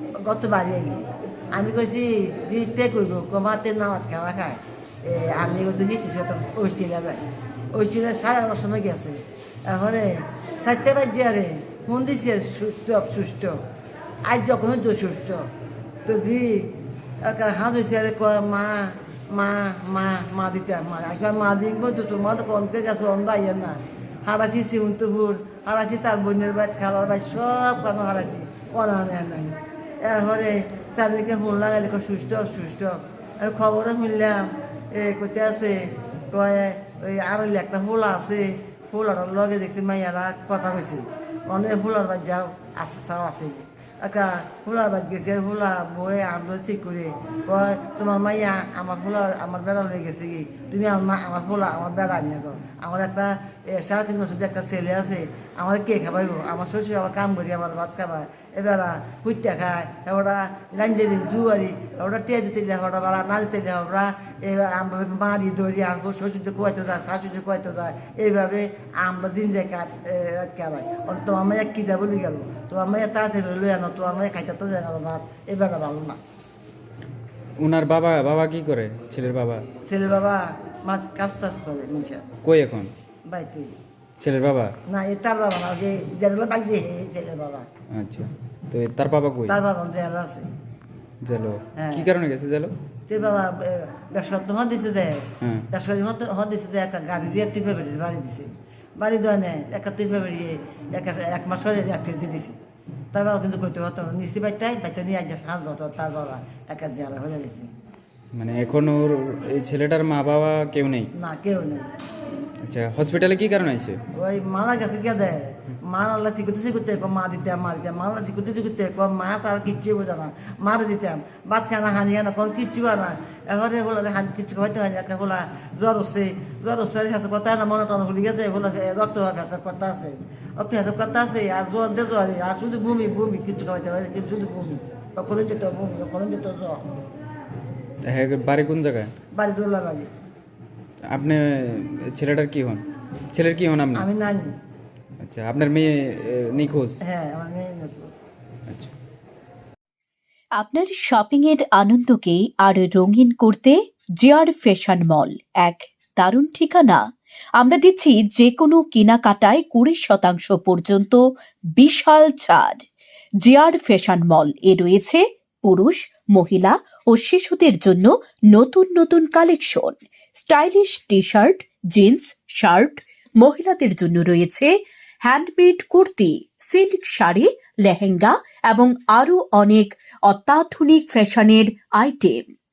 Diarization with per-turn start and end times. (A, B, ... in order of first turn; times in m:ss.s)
0:00.2-0:13.6 A
0:14.2-0:15.5 A
0:16.0-0:16.7 A
0:17.2-0:35.7 A
0:36.3-1:16.2 A
1:17.6-1:19.6 B
1:19.8-1:22.2 A
1:22.4-1:22.9 B
1:23.3-1:23.7 A
1:24.2-1:24.8 B
1:24.9-1:27.7 A
1:27.9-1:29.6 B
1:29.5-1:30.4 A
1:31.2-1:32.7 B
1:31.8-1:32.1 A
1:33.1-1:42.6 A
1:35.4-1:35.7 B
1:43.1-1:47.7 A
1:48.3-1:51.1 B
1:51.2-1:51.8 A
1:52.6-1:54.0 B
1:54.1-2:16.8 A
2:18.1-2:19.1 B
2:19.3-2:20.1 A
2:21.1-2:24.1 B
2:23.9-2:24.5 A
2:25.2-2:27.0 B
2:27.0-2:28.1 A
2:30.6-2:42.8 C
2:43.4-3:02.5 C